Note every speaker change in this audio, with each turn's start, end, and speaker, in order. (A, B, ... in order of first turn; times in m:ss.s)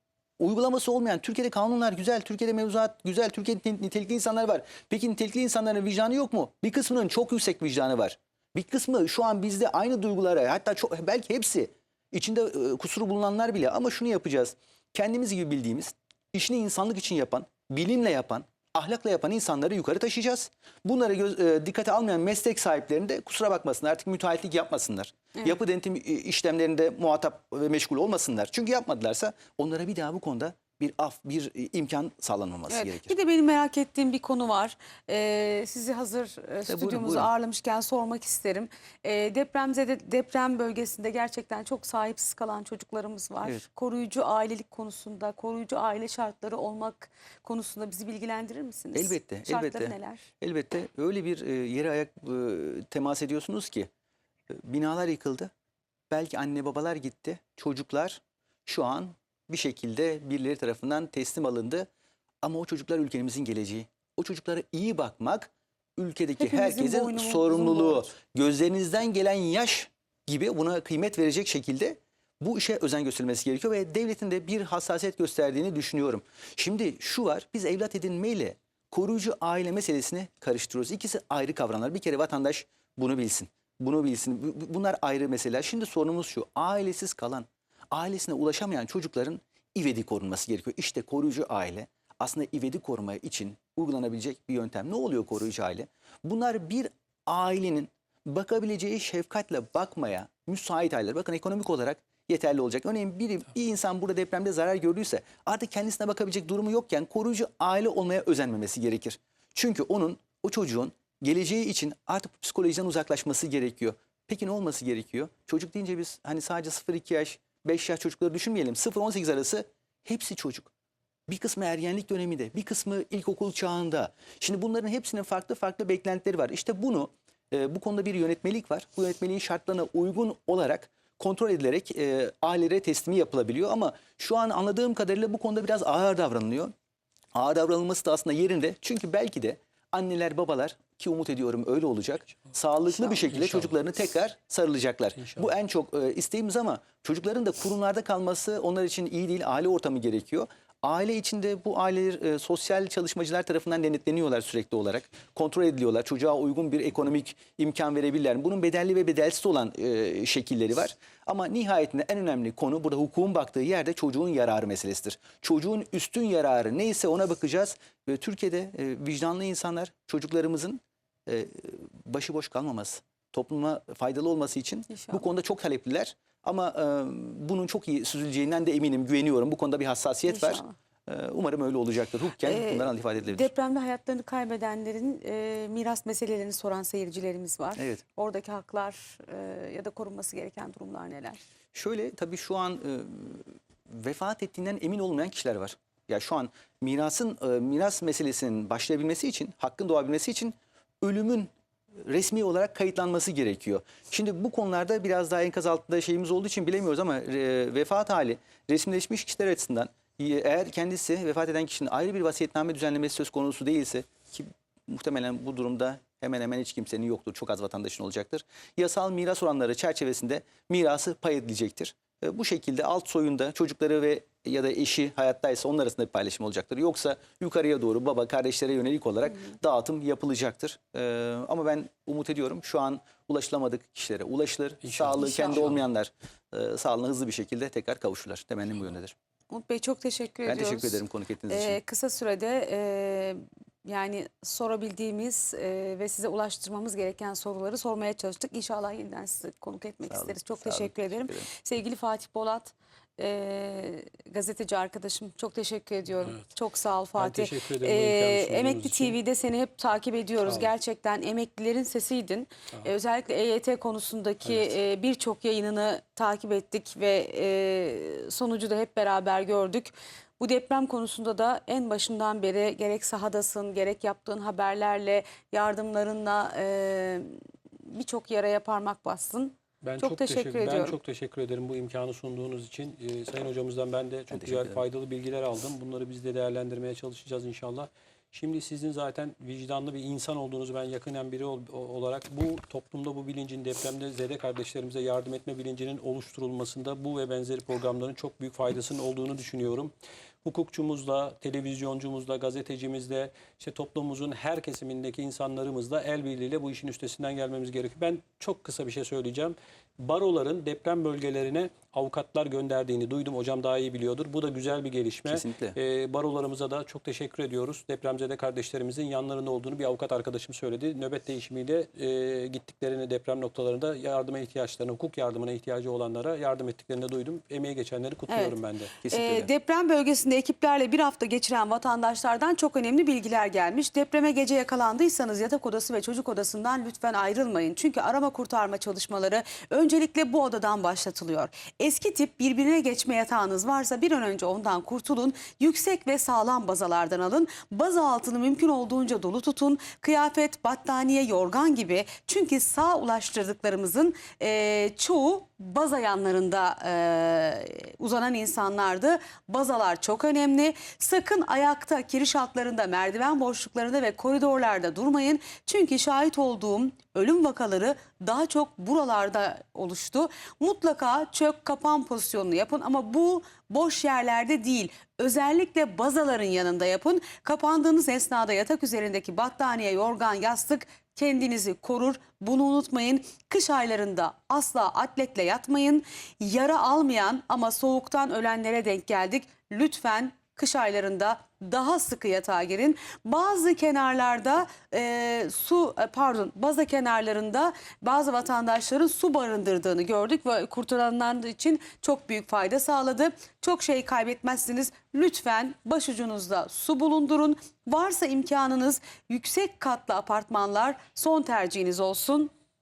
0:00.4-0:33.1 A
0:32.7-0:50.2 B
0:36.7-0:37.3 A
0:48.9-0:53.9 A
0:54.5-0:55.5 A
0:56.1-1:01.9 A
1:02.4-2:00.7 A
1:06.4-1:08.1 B
2:01.3-2:16.7 A
2:17.3-3:03.5 A
2:23.3-2:23.7 C
2:54.9-2:55.2 B
3:00.3-3:00.7 B
3:02.4-3:11.4 B
3:07.8-3:08.0 A
3:11.7-3:59.1 A
3:54.8-3:55.8 C
3:59.5-4:37.3 B
4:00.4-4:01.8 A
4:10.1-4:11.5 A
4:17.2-4:19.2 C
4:37.9-4:40.9 B
4:39.8-4:59.9 C
4:44.3-4:44.8 A
5:00.4-5:28.9 C
5:15.3-5:15.8 A
5:28.3-5:28.5 B
5:29.0-5:29.5 A
5:29.1-6:52.5 B